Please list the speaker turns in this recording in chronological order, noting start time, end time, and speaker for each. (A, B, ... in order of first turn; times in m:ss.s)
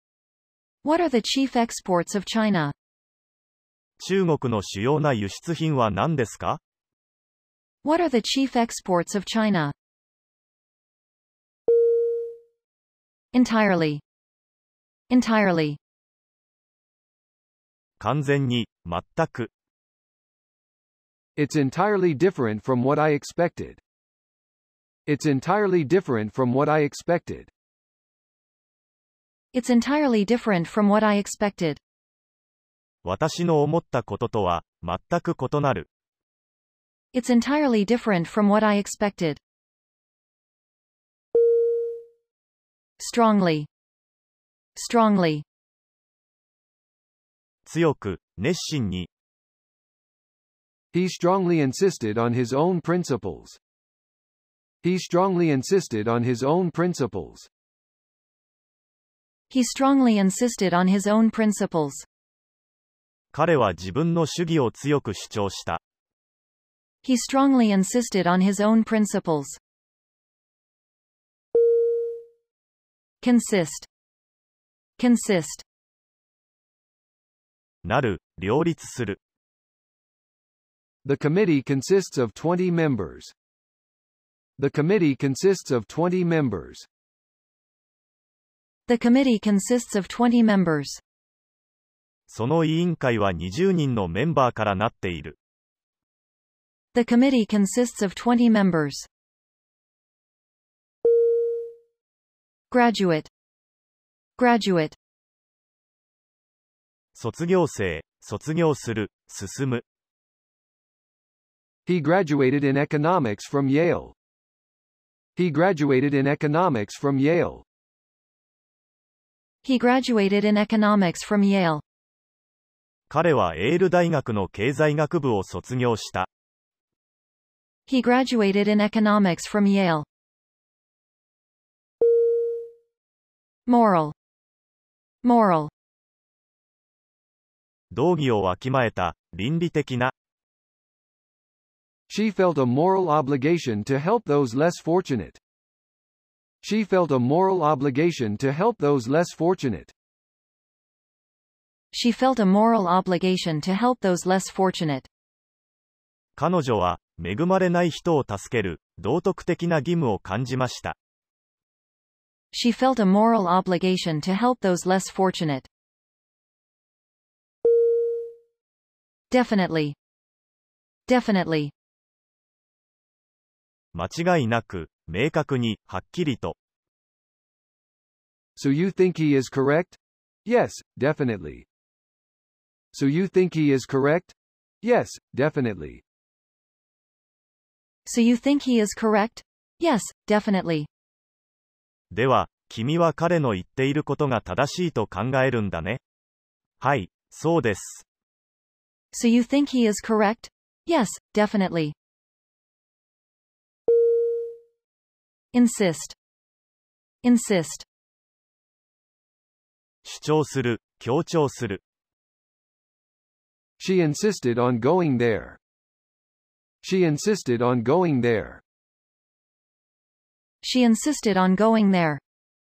0:00.8-0:02.7 A
0:04.0-0:06.6 B
0:07.8-0:09.7 A
0:13.3-0:14.0 A
0:15.1-0:15.8 A
0:18.0-0:19.5 B
0:21.4-0:23.8 C
0:25.1-0:27.5 C
0:29.5-0:31.8 A
0:33.0-0:35.9 B
0:37.1-0:39.4 A
0:43.0-0:43.7 A
0:44.8-0:45.4 A
0:47.7-0:49.1 B
0:50.9-0:53.6 C
0:54.8-0:57.5 C
0:59.5-1:02.1 A
1:03.3-1:05.8 B
1:07.0-1:09.6 A
1:13.2-1:13.9 A
1:15.0-1:15.6 A
1:17.8-1:19.2 B
1:21.0-1:23.3 C
1:24.6-1:26.9 C
1:28.9-1:31.0 A
1:32.3-1:35.4 B
1:36.9-1:39.1 A
1:42.7-1:43.3 A
1:44.4-1:45.0 A
1:47.2-1:49.8 B
1:51.9-1:54.2 C
1:55.4-1:57.6 C
1:59.6-2:01.8 A
2:03.1-2:06.3 B
2:07.9-2:10.1 A
2:13.7-2:14.2 A
2:15.2-2:15.7 A
2:17.9-2:20.1 B
2:22.1-2:25.4 C
2:26.6-2:29.9 C
2:31.9-2:35.1 A
2:36.4-2:41.0 B
2:42.5-2:45.7 A
2:49.3-2:50.0 A
2:51.1-2:51.7 A
2:53.9-2:56.6 B
2:58.6-3:01.7 C
3:02.9-3:06.0 C
3:08.1-3:10.9 A
3:12.1-3:16.0 B
3:16.8-3:18.0 B
3:19.1-3:22.0 A
3:25.5-3:26.2 A
3:27.2-3:27.9 A
3:30.0-3:31.8 B
3:33.8-3:35.6 C
3:36.8-3:38.6 C
3:40.6-3:42.2 A